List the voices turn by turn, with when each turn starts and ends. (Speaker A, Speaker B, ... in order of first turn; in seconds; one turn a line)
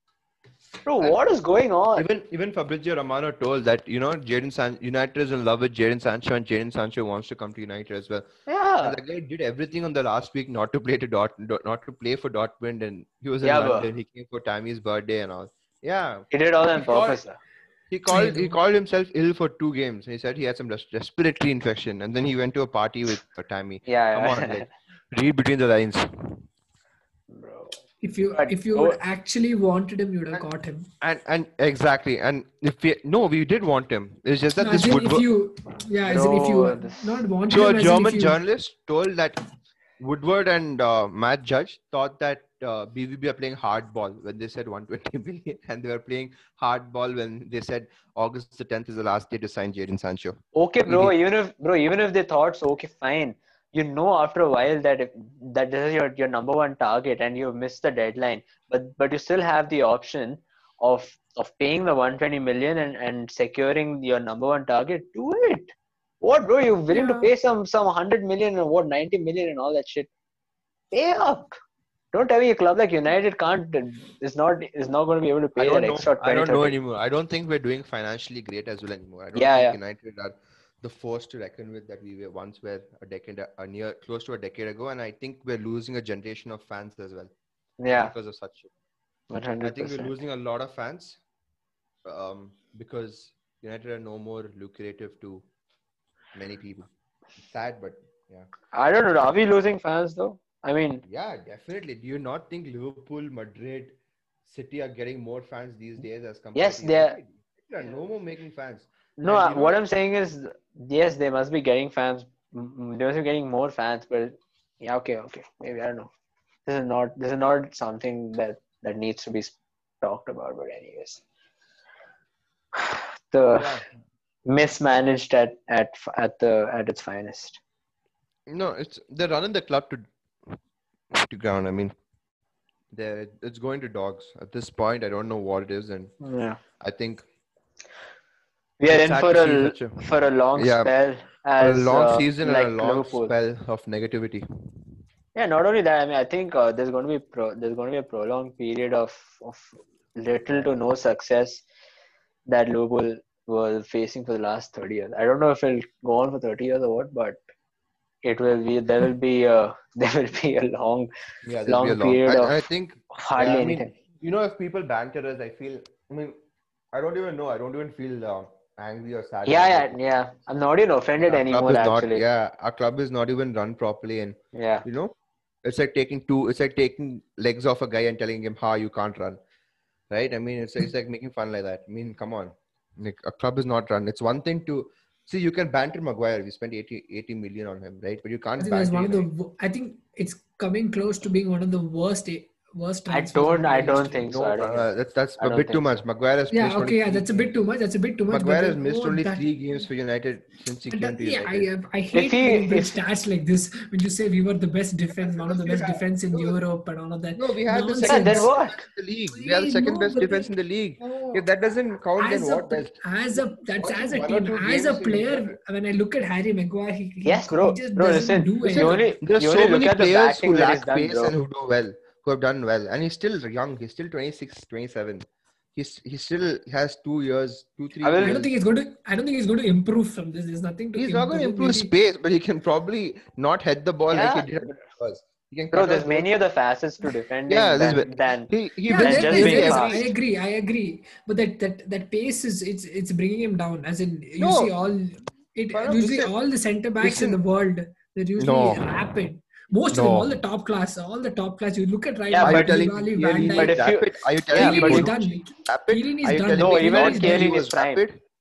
Speaker A: 0.9-2.1
Speaker B: 1.9-8.3
Speaker A: 8.5-9.0
Speaker B: 8.8-17.2
Speaker A: 13.4-13.9
Speaker A: 16.3-17.4
Speaker B: 17.9-26.4
Speaker C: 18.1-18.6
Speaker A: 23.9-24.7
Speaker A: 27.3-27.8
Speaker C: 28.0-30.9
Speaker A: 28.3-29.0
Speaker B: 31.0-35.3
Speaker C: 34.6-38.4
Speaker A: 36.1-37.2
Speaker B: 37.5-39.4
Speaker B: 40.0-51.1
Speaker A: 50.5-70.1
Speaker C: 66.9-67.3
Speaker A: 70.9-71.6
Speaker A: 72.1-76.8
Speaker B: 75.6-87.3
Speaker A: 79.3-79.8
Speaker A: 87.8-88.1
Speaker B: 87.9-88.7
Speaker A: 89.3-90.2
Speaker B: 89.6-91.2
Speaker B: 92.0-95.5
Speaker B: 96.3-96.9
Speaker B: 97.4-98.5
Speaker A: 98.7-101.0
Speaker B: 101.0-109.8
Speaker A: 106.5-107.2
Speaker A: 109.2-116.1
Speaker A: 116.7-121.2
Speaker A: 122.8-123.8
Speaker B: 123.5-123.9
Speaker A: 124.5-127.6
Speaker B: 128.5-130.1
Speaker B: 131.1-131.9
Speaker B: 132.9-136.1
Speaker A: 136.2-136.6
Speaker B: 136.8-137.2
Speaker A: 138.8-143.3
Speaker B: 138.9-140.0
Speaker B: 140.5-140.9
Speaker B: 141.6-144.5
Speaker A: 145.3-151.6
Speaker A: 152.5-157.4
Speaker A: 158.2-161.1
Speaker B: 161.4-166.4
Speaker A: 161.7-162.6
Speaker A: 163.1-163.9
Speaker B: 166.9-169.9
Speaker A: 169.5-172.2
Speaker B: 171.2-179.4
Speaker A: 174.5-174.8
Speaker B: 180.1-189.3
Speaker C: 188.6-194.3
Speaker A: 193.1-194.9
Speaker B: 194.3-197.6
Speaker A: 195.4-195.8
Speaker C: 196.5-199.5
Speaker B: 198.3-201.7
Speaker C: 200.9-208.5
Speaker A: 202.1-203.0
Speaker B: 205.1-206.6
Speaker B: 207.3-215.6
Speaker A: 208.0-208.8
Speaker C: 209.3-211.4
Speaker C: 212.2-219.2
Speaker A: 217.2-221.4
Speaker B: 218.7-228.5
Speaker A: 228.0-228.4
Speaker C: 228.1-231.9
Speaker B: 231.0-236.3
Speaker A: 234.1-234.7
Speaker A: 235.7-240.0
Speaker B: 237.5-240.1
Speaker C: 238.9-253.8
Speaker B: 244.4-244.7
Speaker B: 245.7-246.3
Speaker B: 247.0-247.4
Speaker B: 248.4-249.0
Speaker B: 249.9-250.3
Speaker A: 252.3-252.8
Speaker B: 252.4-258.2
Speaker A: 253.4-255.1
Speaker C: 254.5-257.5
Speaker A: 256.6-258.0